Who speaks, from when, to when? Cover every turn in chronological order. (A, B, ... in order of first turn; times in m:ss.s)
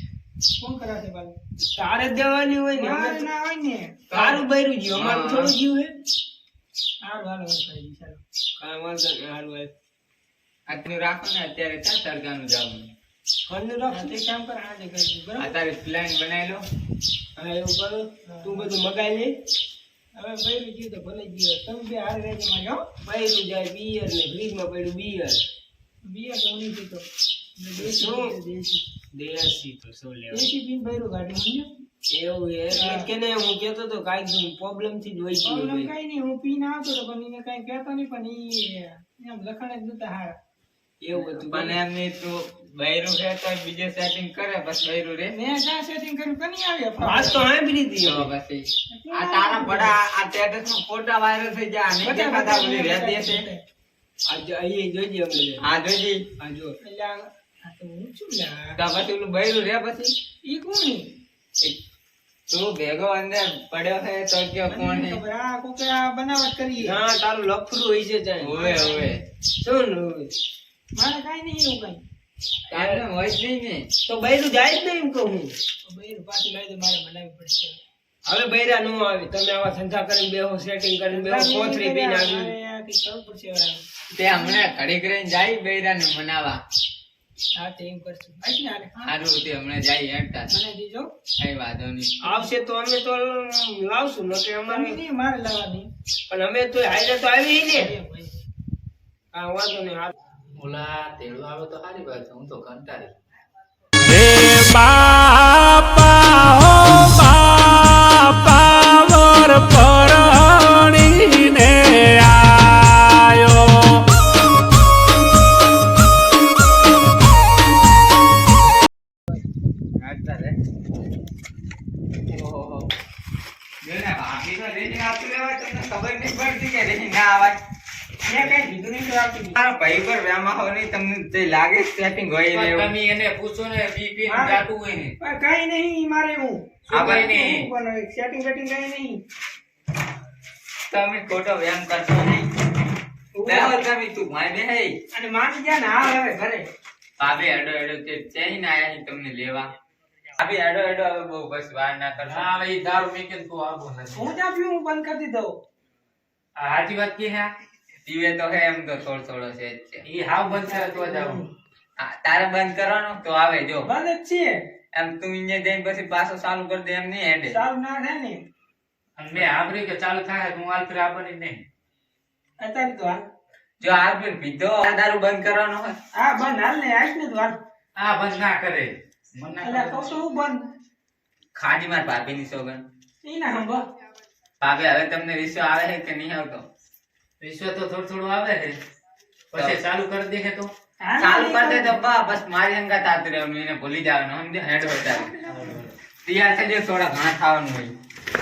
0:00.6-0:01.4 A
0:01.8-0:03.2 B
0:02.8-0:04.0 A
0:04.1-0:04.4 C
0:04.1-0:06.0 B
0:04.9-0:05.6 C
0:07.0-0:08.2 A
0:08.6-0:09.7 B
0:10.7-0:12.8 C
0:13.5-0:14.2 B
0:13.9-0:15.5 A
0:15.4-0:16.6 C
0:17.4-0:19.3 B
0:18.2-0:18.7 A
0:20.1-0:22.8 A
0:23.0-0:25.4 B
0:26.0-0:28.8 A
0:27.8-0:28.3 B
0:29.1-0:30.5 B
0:30.3-0:31.7 A
0:32.1-0:35.9 B
0:32.7-0:33.1 A
0:35.4-0:40.4 A
0:41.0-0:41.8 B
0:41.2-0:45.3 C
0:45.3-0:47.4 A
0:47.0-0:48.3 B
0:48.0-0:53.4 C
0:48.9-0:50.0 A
0:52.0-0:53.6 A
0:54.3-0:55.6 B
0:55.6-0:56.2 C
0:56.4-0:56.7 B
0:56.8-0:58.8 A
0:58.8-1:00.1 C
1:00.4-1:01.1 A
1:02.5-1:05.2 C
1:04.7-1:07.0 A
1:06.8-1:08.6 B
1:08.4-1:09.2 C
1:08.5-1:09.2 A
1:09.6-1:10.3 B
1:10.9-1:12.0 A
1:12.7-1:13.0 B
1:12.7-1:13.9 C
1:14.1-1:15.5 B
1:15.8-1:17.8 A
1:18.2-1:22.5 B
1:21.1-1:24.6 A
1:24.1-1:26.6 C
1:27.6-1:28.9 A
1:29.0-1:30.5 C
1:30.5-1:31.1 A
1:31.4-1:32.2 C
1:32.2-1:35.0 B
1:34.7-1:35.9 A
1:36.3-1:37.9 B
1:37.7-1:38.3 A
1:39.3-1:40.1 B
1:40.5-1:43.1 D
1:44.1-1:54.0 E
2:00.0-2:00.6 C
2:02.3-2:02.9 C
2:03.8-2:07.6 C
2:08.2-2:09.6 A
2:09.5-2:12.9 C
2:12.5-2:15.1 D
2:14.2-2:14.6 A
2:15.2-2:19.2 A
2:16.9-2:17.3 C
2:16.9-2:17.7 D
2:20.9-2:22.5 C
2:23.3-2:23.8 A
2:23.4-2:24.9 C
2:25.1-2:26.6 A
2:27.2-2:29.7 C
2:30.4-2:32.5 C
2:32.2-2:34.4 D
2:34.1-2:35.6 A
2:36.6-2:37.5 D
2:38.0-2:40.0 C
2:40.0-2:41.4 D
2:40.5-2:41.4 A
2:42.0-2:43.9 C
2:43.8-2:44.6 A
2:44.9-2:47.6 C
2:47.5-2:48.4 A
2:49.2-2:51.6 D
2:52.6-2:53.2 A
2:53.8-2:55.9 C
2:56.1-2:57.6 A
2:58.0-3:00.1 D
2:59.6-3:00.6 A
3:01.5-3:02.8 C
3:03.2-3:03.8 A
3:04.6-3:06.6 C
3:07.4-3:08.8 D
3:09.5-3:10.7 D
3:09.5-3:09.8 C
3:11.0-3:11.9 A
3:11.2-3:15.3 C
3:15.0-3:15.8 A
3:15.5-3:15.9 D
3:16.2-3:17.9 C